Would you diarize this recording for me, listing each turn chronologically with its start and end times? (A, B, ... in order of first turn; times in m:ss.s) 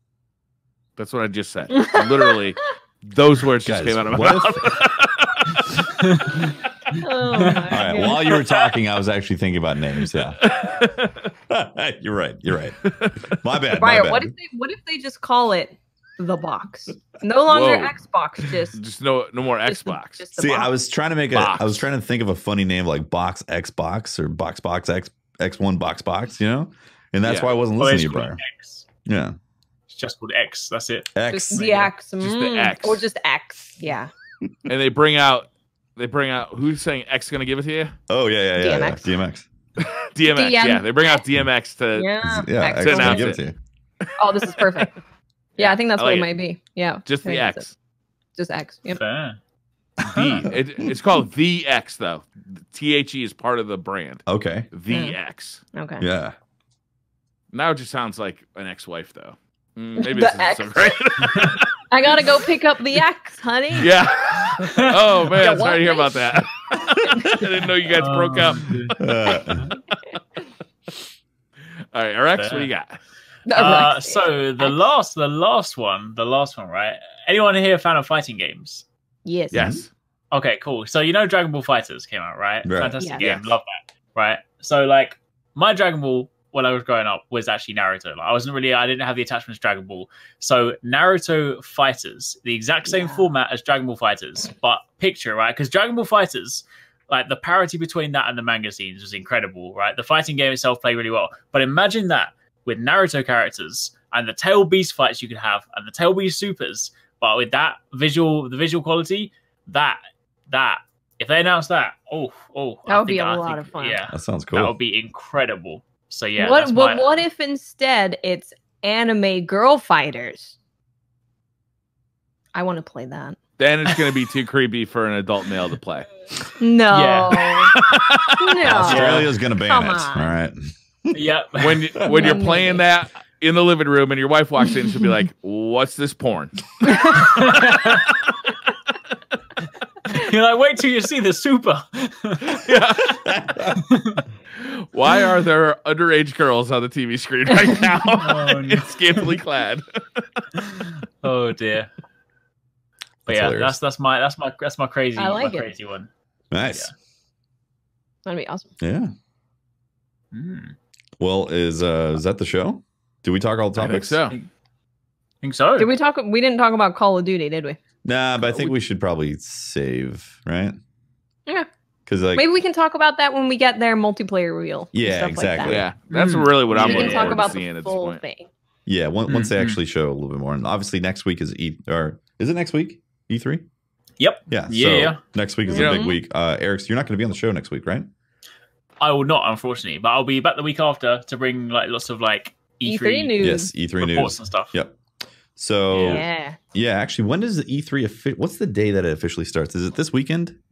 0:01.0-0:05.7 A
0:01.8-0:02.4 B
0:03.6-0:04.8 C
0:06.0-0:08.5 D
0:06.9-0:08.4 B
0:07.7-0:10.4 C
0:10.1-0:11.3 A
0:11.5-0:14.3 C
0:12.8-0:13.4 A
0:13.8-0:18.8 B
0:17.5-0:18.0 A
0:18.7-0:20.3 A
0:19.7-0:20.7 B
0:20.4-0:28.4 C
0:21.3-0:21.9 A
0:27.2-0:27.5 A
0:27.8-0:28.8 D
0:29.0-0:29.4 C
0:29.9-0:31.9 D
0:31.2-0:31.7 C
0:31.3-0:34.1 B
0:32.2-0:33.0 A
0:34.7-0:38.0 A
0:38.1-0:39.5 C
0:38.6-0:39.1 B
0:39.8-0:42.1 A
0:40.3-0:41.2 B
0:41.9-0:43.4 B
0:42.2-0:43.6 C
0:42.7-0:43.4 A
0:44.0-0:44.9 A
0:44.2-0:45.0 B
0:45.6-0:46.3 A
0:45.6-0:47.6 B
0:47.0-0:47.7 A
0:48.4-0:49.0 B
0:48.9-0:49.4 D
0:50.1-0:55.6 A
0:50.2-0:50.5 D
0:54.3-0:54.7 C
0:54.9-0:55.2 B
0:55.7-0:56.1 B
0:56.0-0:56.4 C
0:57.5-1:02.2 A
1:00.0-1:03.9 B
1:03.8-1:10.2 A
1:04.6-1:04.9 D
1:05.2-1:07.5 B
1:08.0-1:08.9 D
1:09.0-1:09.7 C
1:11.9-1:13.0 A
1:12.4-1:12.7 D
1:13.5-1:14.8 B
1:13.5-1:18.8 D
1:19.2-1:19.7 B
1:19.5-1:19.9 A
1:19.5-1:19.8 C
1:20.3-1:57.2 D
1:22.6-1:23.0 C
1:23.0-1:23.4 B
1:23.2-1:23.5 A
1:32.9-1:33.3 B
1:52.9-1:54.0 B
1:54.1-1:54.8 C
1:56.4-2:00.6 B
2:02.5-2:03.4 B
2:03.6-2:06.1 A
2:06.6-2:07.8 B
2:06.9-2:07.7 D
2:07.7-2:08.5 A
2:08.4-2:10.3 B
2:08.6-2:11.2 C
2:08.8-2:09.3 D
2:11.1-2:12.4 D
2:11.6-2:16.9 A
2:12.0-2:12.3 C
2:12.1-2:12.8 B
2:16.8-2:17.6 B
2:17.2-2:18.1 D
2:20.1-2:22.6 D
2:22.4-2:23.3 A
2:23.1-2:23.8 C
2:23.9-2:24.2 D
2:24.5-2:30.2 A
2:28.2-2:29.3 D
2:30.6-2:31.9 D
2:33.3-2:33.8 C
2:33.3-2:36.1 D
2:35.2-2:35.7 B
2:36.5-2:36.9 C
2:38.2-2:38.7 B
2:38.8-2:39.1 C
2:40.3-2:40.8 D
2:41.2-2:44.2 C
2:43.8-2:44.4 A
2:45.4-2:45.9 D
2:45.8-2:47.8 B
2:48.0-2:50.8 C
2:52.1-2:52.5 C
2:52.4-2:55.8 B
2:54.9-2:55.9 C
2:55.6-2:58.2 A
2:56.1-2:57.5 D
2:56.8-2:58.5 B
2:58.9-3:03.6 C
2:59.3-2:59.8 D
3:04.2-3:05.2 D
3:04.5-3:08.1 C
3:05.7-3:06.2 B
3:05.7-3:06.0 A
3:09.0-3:14.7 D
3:12.9-3:13.7 B
3:13.4-3:15.0 C
3:15.6-3:20.6 C
3:15.9-3:16.2 D
3:16.1-3:16.6 B